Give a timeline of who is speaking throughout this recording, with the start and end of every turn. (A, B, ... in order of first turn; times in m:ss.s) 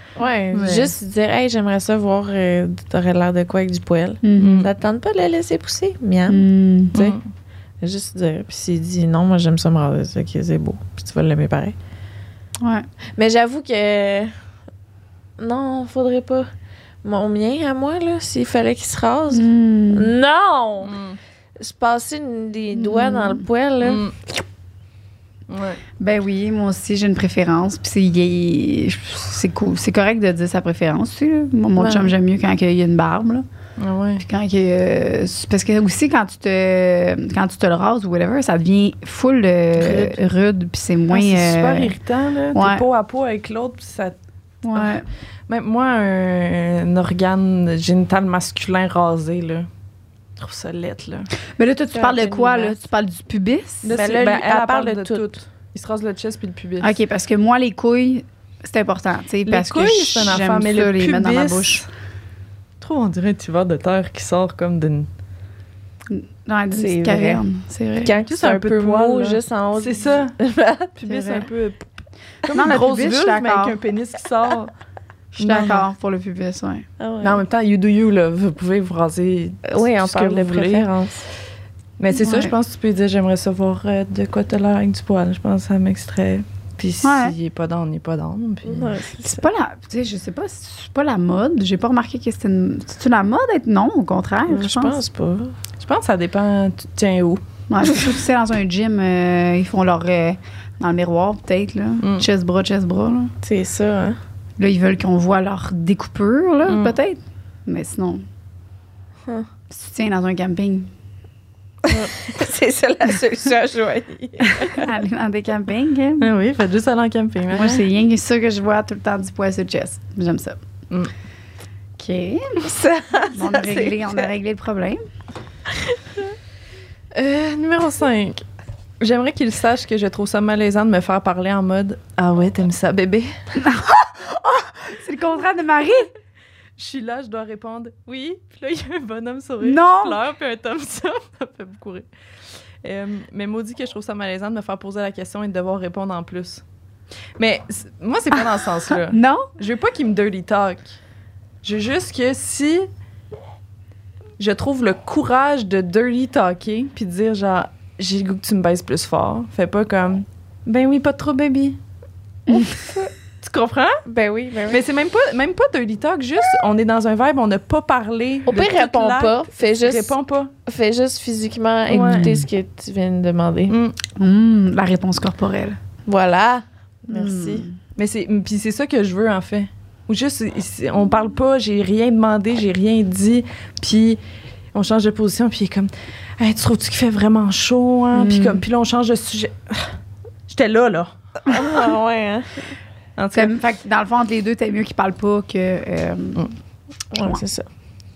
0:00.2-0:07.2 A
0:00.5-0:00.9 B
0:04.2-0:04.6 C
0:04.4-0:04.7 B
0:06.3-0:07.0 C
0:06.9-0:07.2 B
0:07.8-0:11.8 A
0:12.6-0:12.9 C
0:13.1-0:14.3 A
0:15.4-0:16.5 A
0:17.0-0:20.9 A
0:19.3-0:20.1 C
0:20.8-0:21.2 B
0:21.6-0:24.1 A
0:22.7-0:23.4 C
0:23.8-0:24.2 B
0:25.5-0:25.8 B
0:26.0-0:33.4 C
0:31.8-0:32.1 A
0:33.8-0:34.2 B
0:34.2-0:41.9 C
0:39.8-0:40.2 B
0:41.1-0:44.2 B
0:42.5-0:42.8 C
0:44.6-0:45.1 C
0:45.5-0:49.7 B
0:50.4-0:51.3 B
0:51.6-0:53.9 C
0:51.9-0:52.8 A
0:53.8-0:56.9 B
0:53.9-0:55.3 A
0:56.8-1:01.8 C
0:59.5-1:01.8 B
1:02.8-1:05.1 B
1:06.1-1:08.1 C
1:06.7-1:07.4 A
1:08.0-1:11.1 A
1:08.3-1:10.4 B
1:11.0-1:11.8 B
1:11.1-1:11.4 C
1:12.4-1:14.7 B
1:12.5-1:13.8 C
1:15.3-1:16.8 C
1:15.4-1:15.8 B
1:17.0-1:17.4 A
1:17.2-1:20.9 B
1:19.7-1:21.3 A
1:22.0-1:29.0 B
1:22.1-1:22.5 C
1:27.0-1:27.3 C
1:28.6-1:29.5 A
1:29.2-1:35.0 C
1:34.5-1:35.6 A
1:35.8-1:37.4 B
1:37.7-1:43.3 C
1:42.0-1:42.2 B
1:43.4-1:44.2 A
1:44.6-1:48.2 C
1:46.7-1:46.9 B
1:49.7-1:50.9 C
1:51.8-1:54.9 A
1:54.6-1:56.3 C
1:56.2-1:57.8 B
1:57.5-2:00.6 C
2:02.0-2:02.7 C
2:02.6-2:04.2 A
2:03.3-2:05.0 C
2:07.1-2:08.4 B
2:09.0-2:13.4 B
2:13.6-2:16.1 C
2:16.8-2:22.1 B
2:19.6-2:20.2 C
2:22.8-2:26.6 B
2:27.4-2:30.9 B
2:28.3-2:29.5 C
2:31.6-2:32.9 B
2:34.4-2:41.8 B
2:42.5-2:42.9 C
2:42.5-2:43.1 A
2:43.4-2:44.0 B
2:44.0-2:44.8 A
2:44.7-2:50.5 B
2:48.5-2:50.1 A
2:50.6-2:53.8 A
2:51.9-2:52.4 B
2:51.9-2:52.4 C
2:53.7-2:54.0 B
2:54.2-2:55.8 C
2:56.0-2:57.6 A
2:57.1-2:57.8 C
2:58.0-3:04.2 B
3:04.7-3:09.9 B
3:08.1-3:08.6 C
3:10.5-3:11.1 B
3:11.4-3:12.7 A
3:13.2-3:13.5 B
3:13.3-3:16.4 C
3:17.1-3:17.6 A